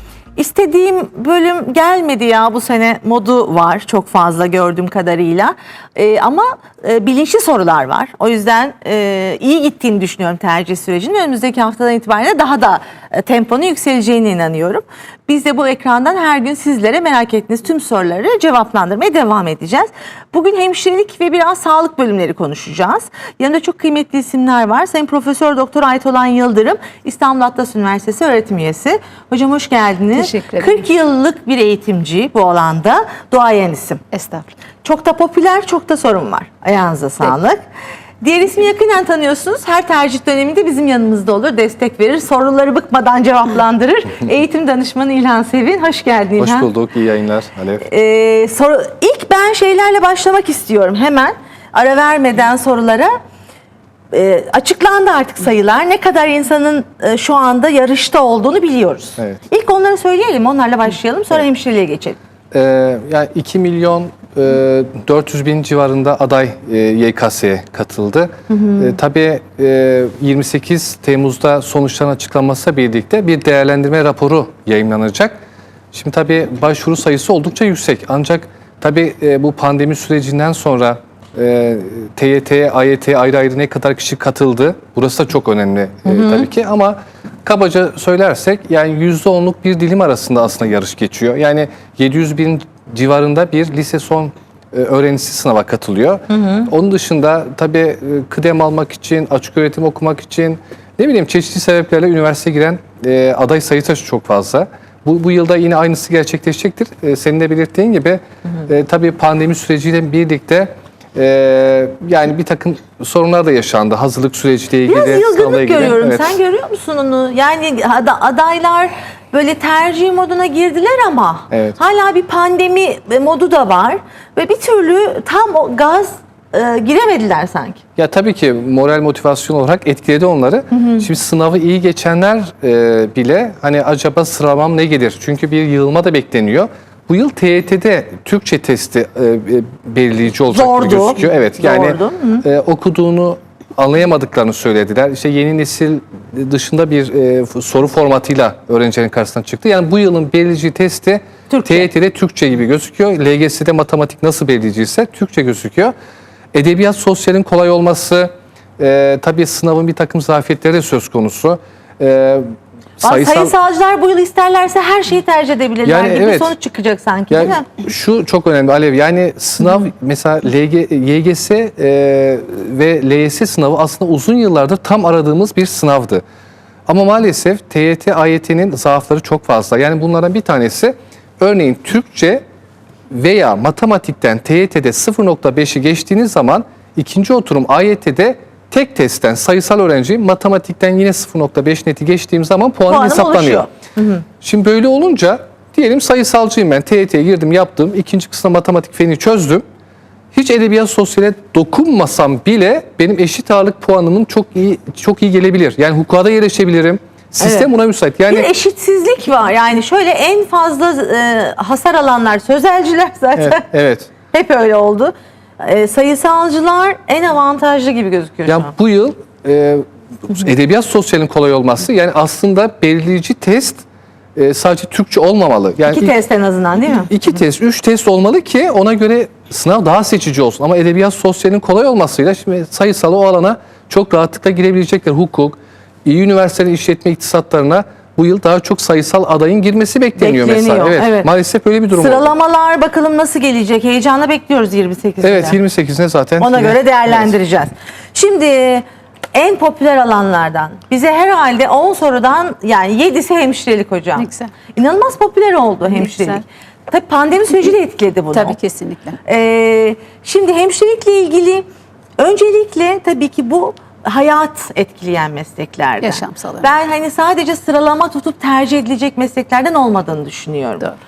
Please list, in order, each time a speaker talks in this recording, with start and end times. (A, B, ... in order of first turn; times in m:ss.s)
0:00.4-0:34.0 A
0:30.2-0:30.8 B
0:34.1-0:34.5 B
0:34.8-0:37.6 A
0:38.2-0:46.7 A
0:46.4-0:47.8 C
0:47.8-0:53.1 A
0:54.1-1:02.2 A
1:02.5-1:15.4 C
1:08.5-1:08.9 A
1:15.9-1:56.4 C
1:26.1-1:26.4 A
1:54.9-2:07.8 A
2:01.5-2:01.8 C
2:08.0-2:35.9 C
2:10.7-2:11.1 A
2:20.5-2:22.4 A
2:31.5-2:31.9 A
2:36.5-2:43.5 C
2:43.0-2:47.6 A
2:45.8-2:46.5 C
2:47.3-2:56.2 C
2:56.9-3:02.4 C
3:03.1-3:13.6 C
3:12.9-3:14.2 A
3:14.4-3:19.6 C
3:20.3-3:28.5 C
3:27.4-3:27.7 A
3:28.3-3:33.6 A
3:33.4-3:34.1 C
3:34.3-3:38.7 A
3:38.5-3:43.8 C
3:44.4-3:46.1 C
3:45.8-3:47.1 A
3:47.1-4:02.3 C
4:00.2-4:01.3 A
4:01.9-4:05.6 A
4:05.2-4:07.3 C
4:06.4-4:18.6 A
4:14.2-4:14.5 B
4:15.9-4:16.4 B
4:18.3-4:19.2 B
4:19.2-4:21.6 A
4:22.2-4:30.9 A
4:26.0-4:26.7 B